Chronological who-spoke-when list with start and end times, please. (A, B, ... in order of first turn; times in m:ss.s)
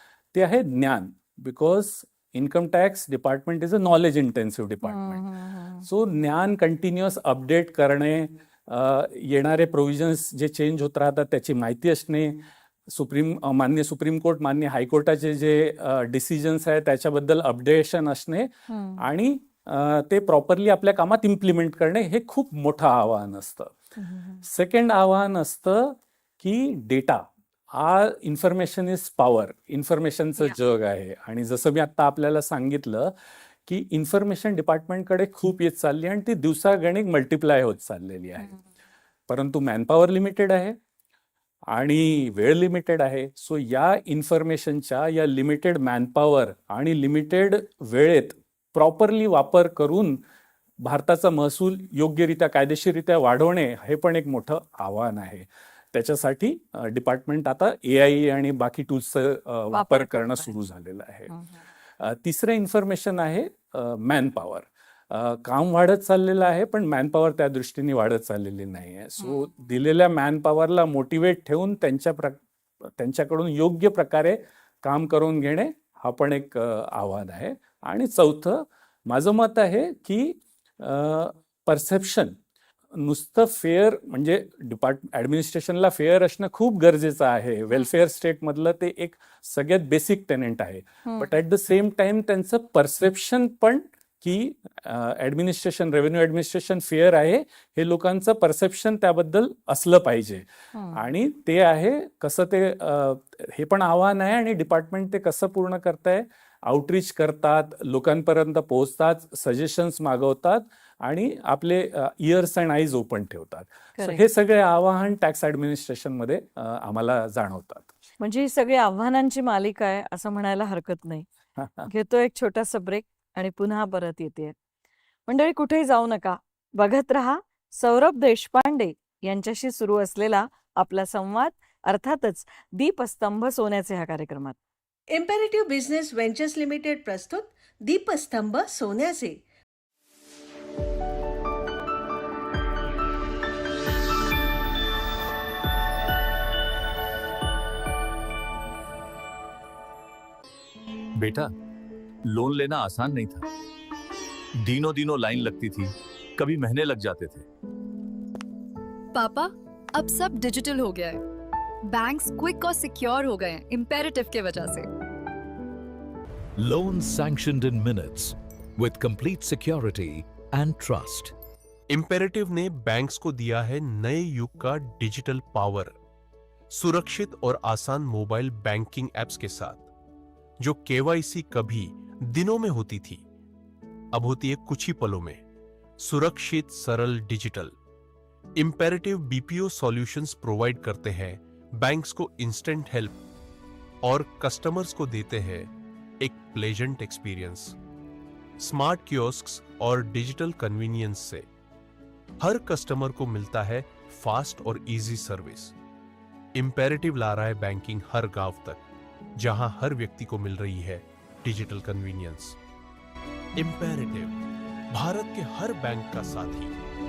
0:00.3-0:05.2 A
0:04.8-0:05.9 B
0:05.8-0:23.7 A
0:18.7-0:19.0 B
0:24.0-0:24.4 B
0:24.4-0:33.1 A
0:33.6-0:38.6 A
0:39.3-0:40.8 A
0:41.7-0:50.2 A
0:50.8-1:01.3 A
0:59.7-1:00.5 B
1:01.3-1:01.6 B
1:02.0-1:22.4 A
1:23.0-1:57.9 A
1:40.7-1:41.0 B
1:54.0-1:54.2 B
1:58.2-2:01.2 B
2:01.6-2:01.9 A
2:01.8-2:04.5 B
2:05.3-2:14.6 B
2:15.1-2:19.4 C
2:31.2-2:31.5 D
2:32.3-2:33.5 D
2:34.6-2:37.5 D
2:39.1-2:41.2 E
2:41.8-2:44.9 E
2:46.6-2:51.3 F
2:51.9-2:55.9 G
2:56.7-2:59.9 G
3:00.6-3:03.2 G
3:04.1-3:05.4 G
3:06.0-3:07.7 G
3:08.6-3:13.2 G
3:14.0-3:17.8 G
3:18.6-3:21.4 G
3:22.4-3:25.7 G
3:26.5-3:28.8 G
3:29.4-3:32.6 G
3:33.6-3:34.4 G
3:34.9-3:36.7 G